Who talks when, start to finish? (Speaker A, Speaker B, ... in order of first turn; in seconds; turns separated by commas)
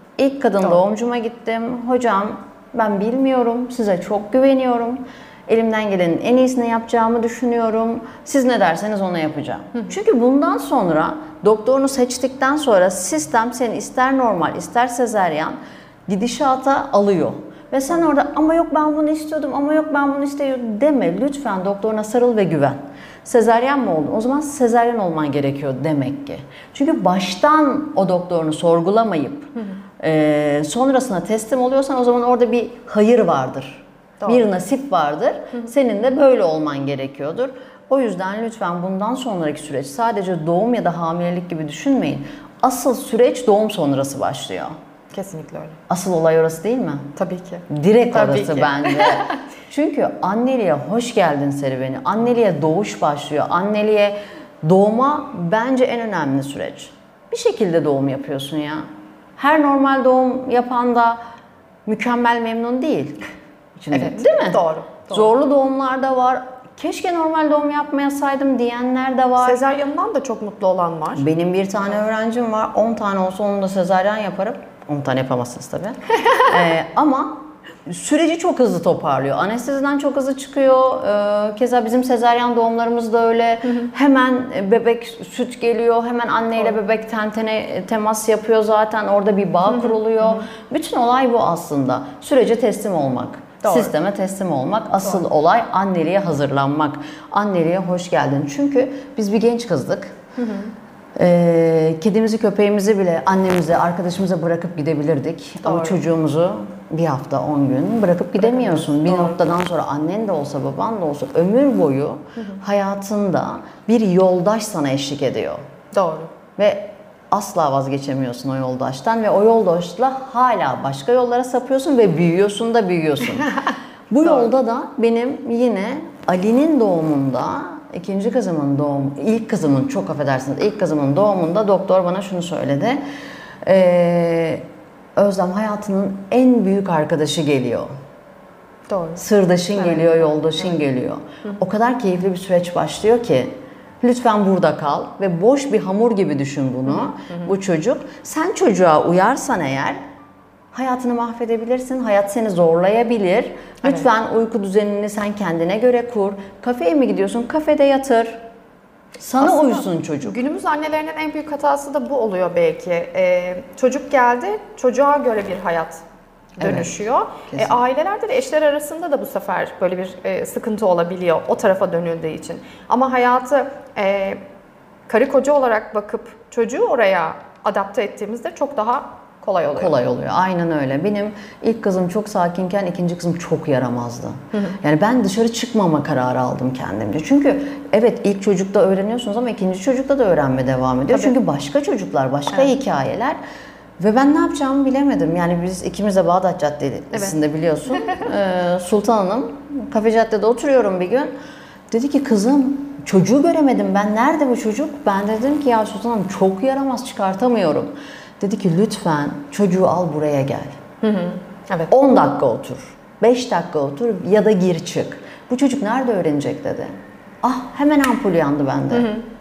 Speaker A: 0.2-44.7, Speaker B: 45.1-45.8, Speaker A: 45.9-47.1, Speaker B: 47.1-49.4, Speaker A: 47.7-58.9, Speaker A: 59.4-61.2, Speaker A: 61.9-63.2, Speaker A: 63.8-69.6, Speaker B: 63.9-65.3, Speaker B: 69.4-71.2, Speaker A: 71.2-100.2, Speaker B: 89.7-90.5, Speaker B: 93.6-93.9, Speaker B: 100.4-100.7, Speaker A: 101.1-115.6, Speaker B: 105.6-106.0, Speaker B: 108.4-109.4, Speaker B: 115.9-116.3, Speaker A: 116.5-123.6, Speaker A: 124.1-133.0, Speaker A: 133.6-134.6, Speaker A: 135.2-137.9, Speaker B: 138.9-139.2, Speaker A: 139.2-150.0, Speaker B: 139.8-140.6, Speaker B: 146.9-147.5, Speaker A: 150.7-158.4, Speaker A: 159.2-160.4, Speaker B: 159.4-166.0, Speaker B: 166.6-174.4, Speaker A: 166.6-166.9, Speaker A: 167.5-167.8, Speaker B: 175.1-179.9, Speaker A: 179.8-193.4, Speaker A: 194.0-201.3, Speaker A: 201.9-210.8, Speaker B: 211.0-211.9, Speaker A: 211.9-216.9, Speaker A: 217.4-219.1, Speaker B: 218.9-219.2